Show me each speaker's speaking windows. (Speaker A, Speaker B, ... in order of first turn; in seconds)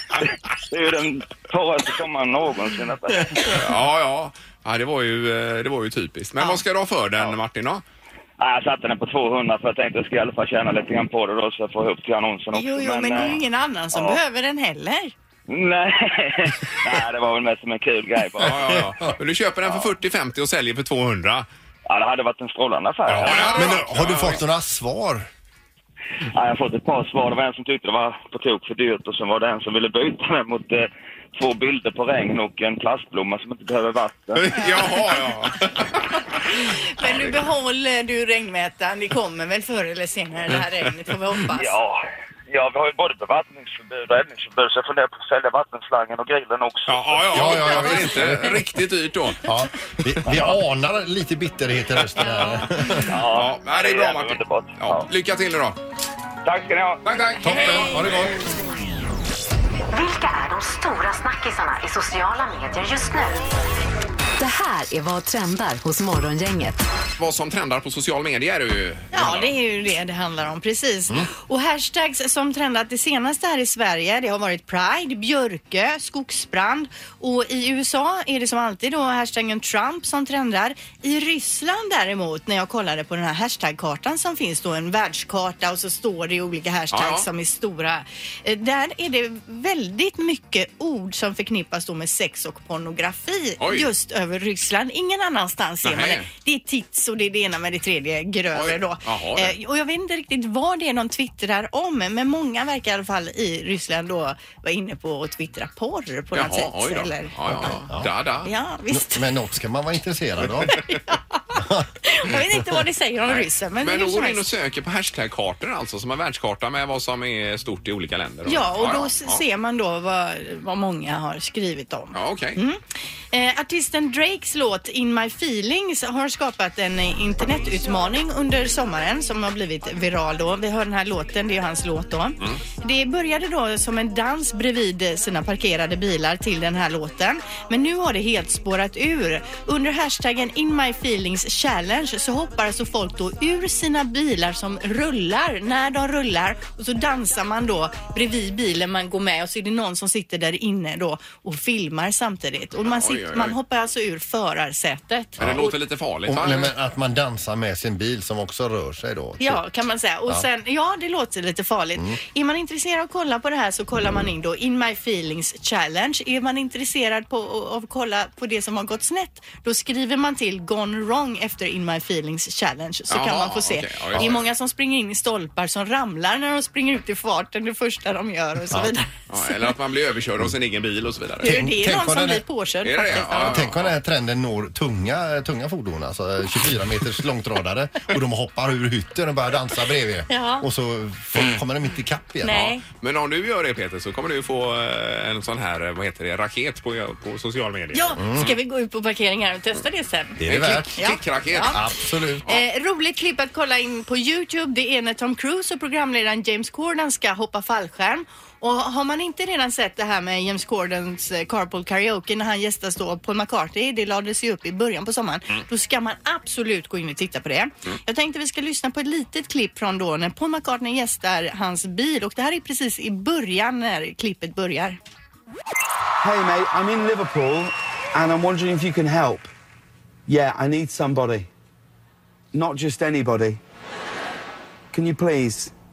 Speaker A: 0.7-3.3, 8.4-13.4, 13.9-14.2, 15.5-18.5, 21.9-23.6, 26.3-34.5, 41.5-42.0, 42.5-47.8, 53.1-55.1, 56.4-57.0
Speaker B: 3.4-7.8, 18.4-21.4, 23.1-24.4, 34.4-36.0, 46.9-49.5, 50.2-50.5, 52.2-55.8, 57.0-58.3, 67.2-69.5, 86.9-87.3, 93.6-93.9, 95.8-96.3, 98.5-99.5, 106.3-108.5, 113.3-119.4, 122.1-122.6, 152.8-153.6, 155.4-156.7, 173.1-174.4, 179.3-181.5, 182.8-184.0, 192.5-198.6, 200.4-201.9
Speaker C: 12.5-15.1, 34.5-35.2, 36.5-41.7, 69.1-107.3, 108.4-109.3, 110.7-114.5, 118.5-122.8, 123.3-155.7, 159.4-179.7, 181.4-183.6, 190.3-190.6, 192.4-192.8, 197.9-200.4, 200.9-201.8, 202.4-225.0
Speaker D: 18.6-18.9, 23.2-25.3, 47.3-48.6, 49.4-53.1, 57.4-58.4, 107.5-108.1, 108.9-110.8, 155.4-155.7, 156.2-159.6, 174.1-174.4, 178.7-178.9, 181.4-182.4, 183.1-192.7, 198.2-198.5, 200.4-201.0, 201.5-202.4
Speaker E: 59.9-63.4, 64.4-66.8
Speaker F: 226.2-229.5, 230.3-231.5, 232.5-233.6, 234.9-235.7